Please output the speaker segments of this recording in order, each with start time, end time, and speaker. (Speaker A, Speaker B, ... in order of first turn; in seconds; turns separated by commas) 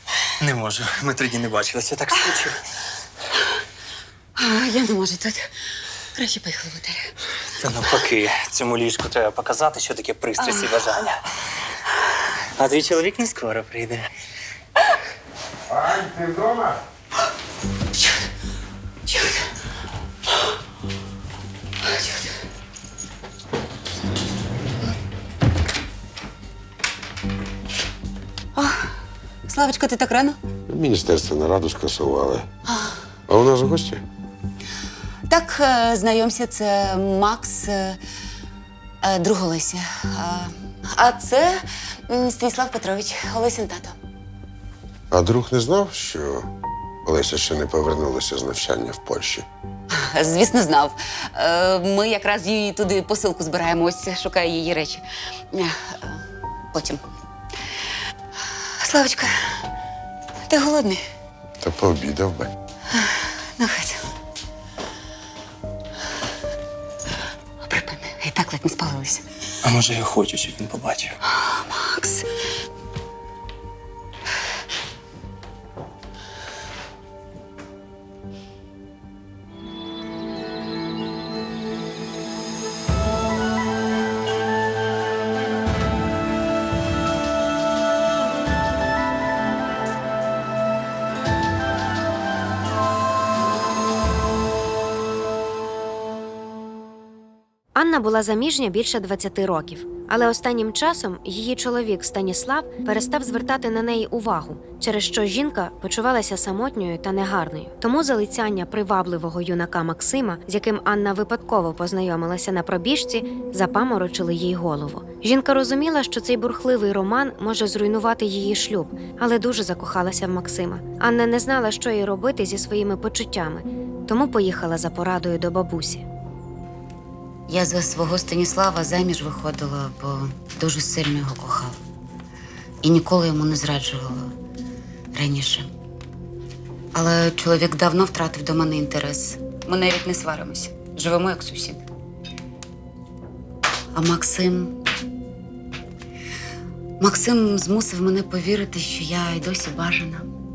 Speaker A: 0.4-2.6, Speaker B: 4.4-5.5, Speaker B: 6.2-7.1, Speaker A: 7.6-11.2, Speaker B: 10.4-10.7, Speaker A: 12.6-14.1, Speaker C: 15.7-16.8, Speaker B: 19.1-19.4, Speaker B: 21.9-22.3, Speaker B: 28.6-28.9, Speaker B: 29.5-30.4, Speaker C: 30.7-32.5, Speaker B: 32.7-33.0, Speaker C: 33.3-34.0, Speaker B: 35.3-38.0, Speaker B: 39.0-44.0, Speaker C: 45.1-46.5, Speaker C: 47.0-49.5, Speaker B: 49.9-57.0, Speaker B: 58.8-59.6, Speaker B: 60.5-61.0, Speaker C: 61.6-62.5, Speaker B: 62.9-64.1, Speaker B: 67.6-69.2, Speaker A: 69.6-71.2, Speaker B: 71.3-72.3, Speaker D: 97.8-126.0, Speaker B: 127.5-131.8, Speaker B: 132.8-134.3, Speaker B: 135.1-135.7, Speaker B: 136.9-141.8, Speaker B: 143.9-144.8, Speaker B: 147.0-150.3